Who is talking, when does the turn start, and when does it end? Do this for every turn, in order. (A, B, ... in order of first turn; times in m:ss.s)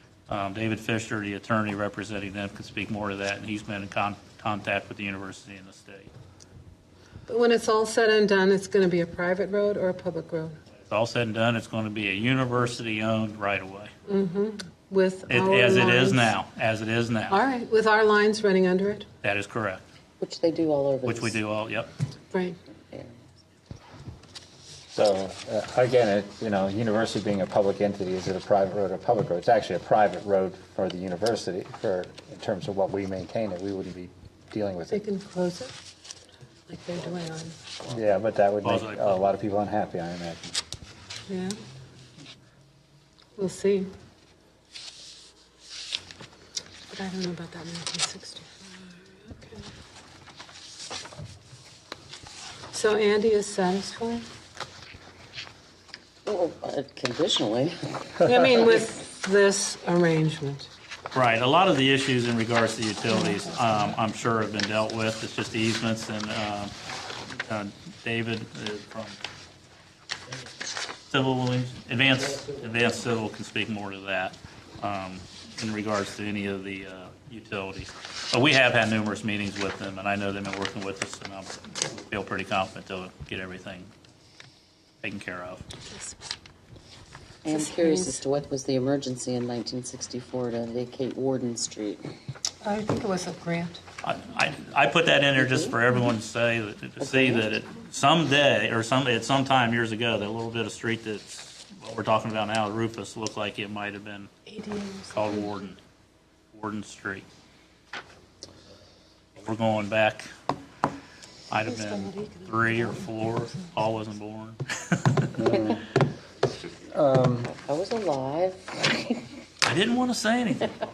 0:00.3-0:06.1 A
0:07.3-0:10.6 B
0:10.8-0:13.9 A
0:14.1-0:16.3 B
0:15.3-0:17.4 A
0:17.3-0:19.1 B
0:19.2-0:19.8 A
0:20.2-0:21.4 C
0:21.0-0:21.9 A
0:22.3-0:22.6 B
0:22.9-0:23.2 C
0:24.9-0:35.0 D
0:34.9-0:35.7 B
0:36.7-0:37.7 B
0:37.9-0:40.6 D
0:38.6-0:39.3 A
0:41.3-0:41.5 B
0:43.4-0:43.9 B
0:46.9-0:49.7 B
0:52.7-0:54.3 B
0:56.2-0:58.3 C
0:58.2-1:00.7 B
1:01.1-1:06.7 A
1:07.3-1:09.2 A
1:11.1-1:23.9 A
1:25.0-1:25.6 A
1:27.4-1:32.0 C
1:27.4-1:28.2 B
1:32.6-1:33.8 B
1:34.0-1:44.3 A
1:35.3-1:35.8 C
1:37.0-1:37.5 C
1:44.4-1:45.6 B
1:45.1-1:45.8 A
1:46.5-1:47.2 A
1:49.4-1:50.3 A
1:51.5-1:55.4 A
1:51.6-1:53.0 B
1:55.4-1:55.8 D
1:55.5-1:55.8 C
1:56.9-1:57.5 D
1:57.5-1:59.3 C
1:59.6-2:00.8 A